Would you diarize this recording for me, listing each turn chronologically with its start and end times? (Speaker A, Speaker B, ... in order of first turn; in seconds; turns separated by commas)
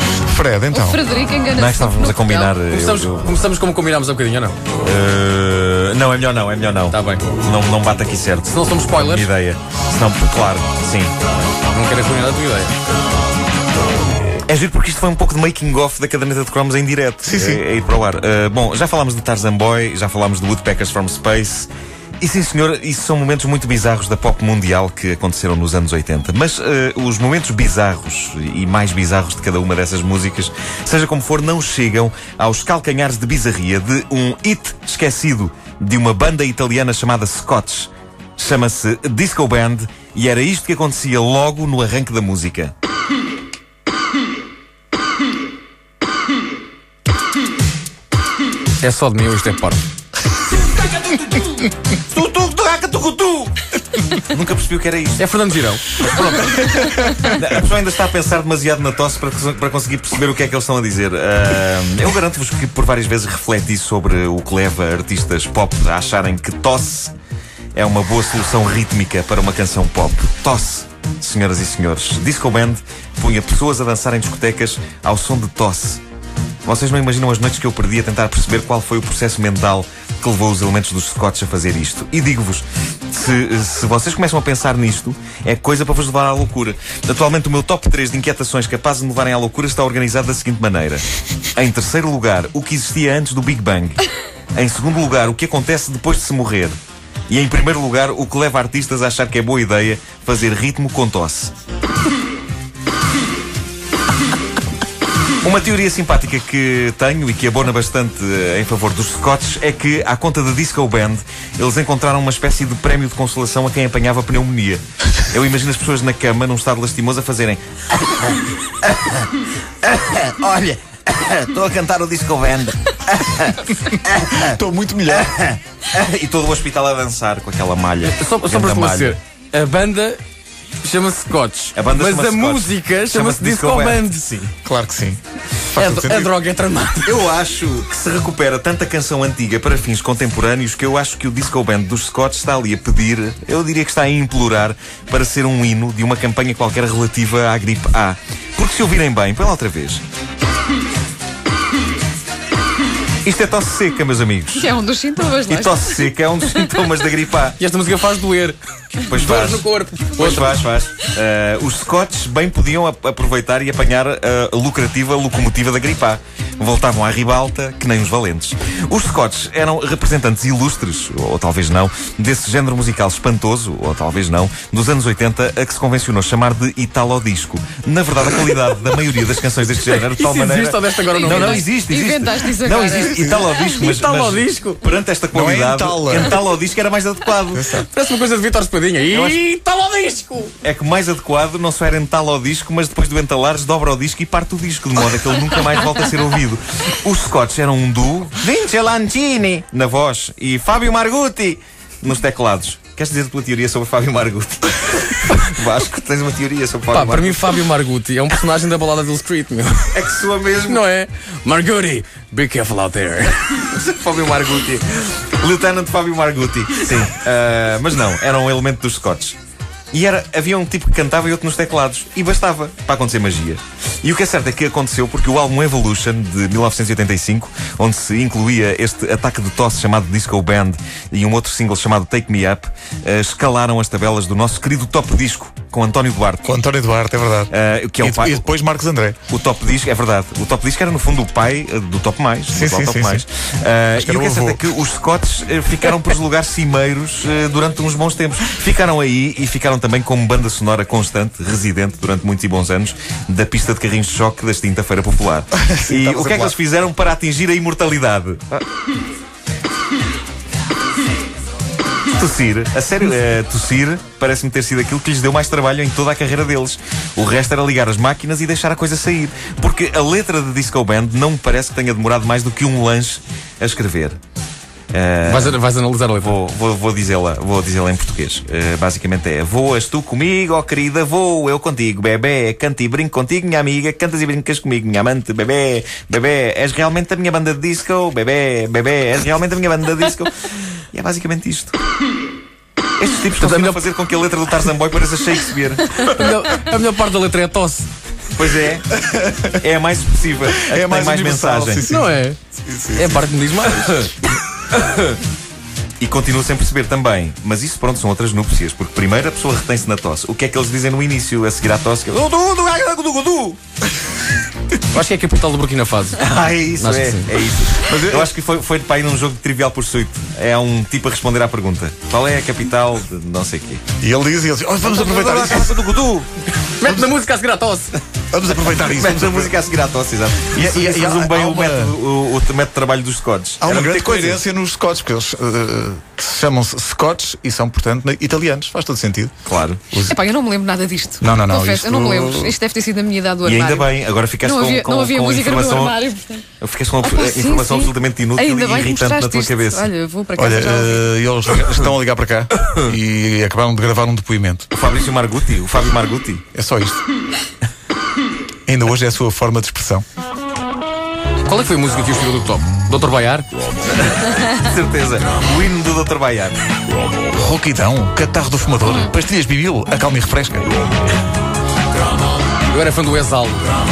Speaker A: 0.2-1.0, Speaker B: 0.7-2.5, Speaker C: 1.5-3.3, Speaker D: 2.7-4.5, Speaker C: 4.8-11.1, Speaker D: 6.9-7.3, Speaker D: 8.5-9.3, Speaker D: 11.6-12.8, Speaker C: 14.5-42.7, Speaker A: 17.2-17.6, Speaker D: 48.8-49.8, Speaker C: 52.1-53.5, Speaker C: 54.2-55.2, Speaker D: 55.2-55.9, Speaker C: 55.9-67.1, Speaker C: 67.7-76.0, Speaker C: 76.7-91.0, Speaker C: 91.5-94.0, Speaker C: 94.5-96.8, Speaker C: 97.3-101.5, Speaker C: 105.4-129.2, Speaker A: 124.2-125.3, Speaker D: 128.1-130.2, Speaker D: 130.8-134.5, Speaker C: 131.7-134.5, Speaker A: 134.6-135.2, Speaker A: 135.7-136.3, Speaker D: 135.7-137.2, Speaker C: 137.0-150.0, Speaker C: 153.2-154.7, Speaker B: 154.6-156.8, Speaker C: 155.5-157.6, Speaker D: 157.6-160.6, Speaker C: 159.1-159.7, Speaker C: 160.2-187.7, Speaker D: 179.8-181.6, Speaker B: 181.3-183.8, Speaker D: 183.6-184.8, Speaker A: 185.3-186.4, Speaker A: 187.5-187.9, Speaker D: 187.7-190.5, Speaker C: 189.1-189.4, Speaker C: 190.6-207.6, Speaker D: 206.9-209.9, Speaker C: 209.9-210.8, Speaker D: 210.6-213.6, Speaker C: 213.6-219.4, Speaker C: 219.9-236.4, Speaker A: 236.4-239.2, Speaker C: 237.5-238.4, Speaker C: 239.3-258.6, Speaker A: 242.5-243.2, Speaker A: 243.9-244.7, Speaker A: 255.6-256.5, Speaker C: 262.1-274.1, Speaker C: 274.9-275.6, Speaker D: 275.2-276.3, Speaker C: 276.2-290.3, Speaker C: 290.9-291.8, Speaker C: 293.0-296.0, Speaker D: 293.4-293.8, Speaker D: 295.9-297.9, Speaker C: 298.3-298.9, Speaker A: 299.0-299.5, Speaker C: 299.5-301.9, Speaker A: 300.5-303.6, Speaker D: 301.9-302.4, Speaker D: 302.9-304.1, Speaker C: 304.7-305.2, Speaker C: 306.0-313.6, Speaker D: 314.9-316.2, Speaker C: 316.2-323.8, Speaker D: 316.8-317.3, Speaker A: 317.8-318.3, Speaker A: 324.0-326.2, Speaker C: 324.8-326.2, Speaker D: 326.7-327.9, Speaker A: 326.8-327.1, Speaker A: 328.3-329.5, Speaker C: 328.9-334.4, Speaker A: 330.5-331.9, Speaker A: 333.6-339.3, Speaker C: 339.4-339.8, Speaker A: 339.9-340.2, Speaker B: 340.0-343.9, Speaker A: 341.2-342.6, Speaker C: 343.4-346.0, Speaker B: 344.4-346.4, Speaker C: 346.6-349.9, Speaker B: 347.0-351.1, Speaker A: 350.4-354.7, Speaker C: 354.7-356.4, Speaker A: 356.5-357.0, Speaker A: 358.7-360.0, Speaker D: 361.4-363.5, Speaker C: 363.9-366.6, Speaker A: 367.3-370.7, Speaker D: 372.7-373.7